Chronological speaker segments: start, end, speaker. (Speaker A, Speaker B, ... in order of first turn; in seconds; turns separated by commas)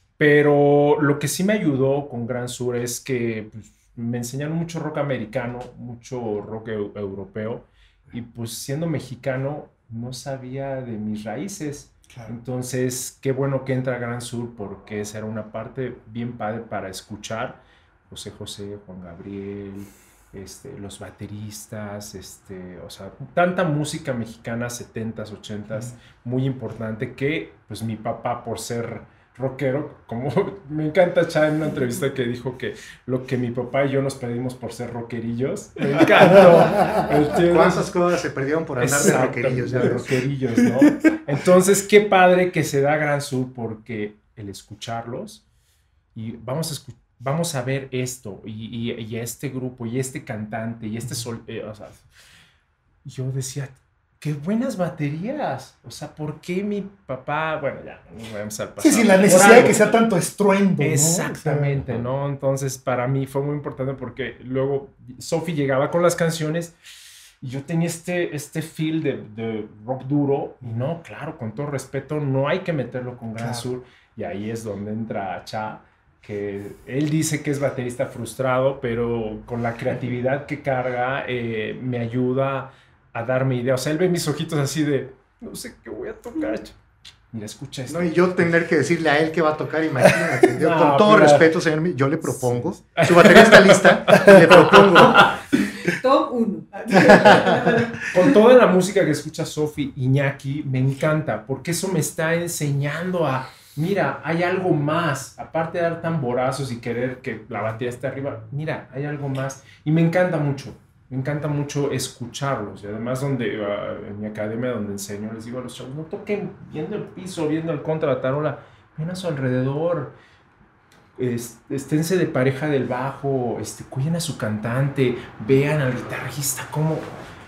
Speaker A: 0.2-37.9, Speaker B: 36.9-40.1, Speaker A: 38.8-45.4, Speaker A: 46.1-52.0, Speaker A: 53.0-60.0, Speaker C: 58.8-61.8, Speaker A: 60.8-66.7, Speaker A: 67.4-86.7, Speaker C: 73.3-73.7, Speaker A: 87.3-88.5, Speaker B: 87.9-95.4, Speaker A: 90.5-91.5, Speaker A: 92.2-95.4, Speaker D: 95.6-98.3, Speaker B: 97.0-97.7, Speaker A: 97.0-120.2, Speaker A: 121.2-127.1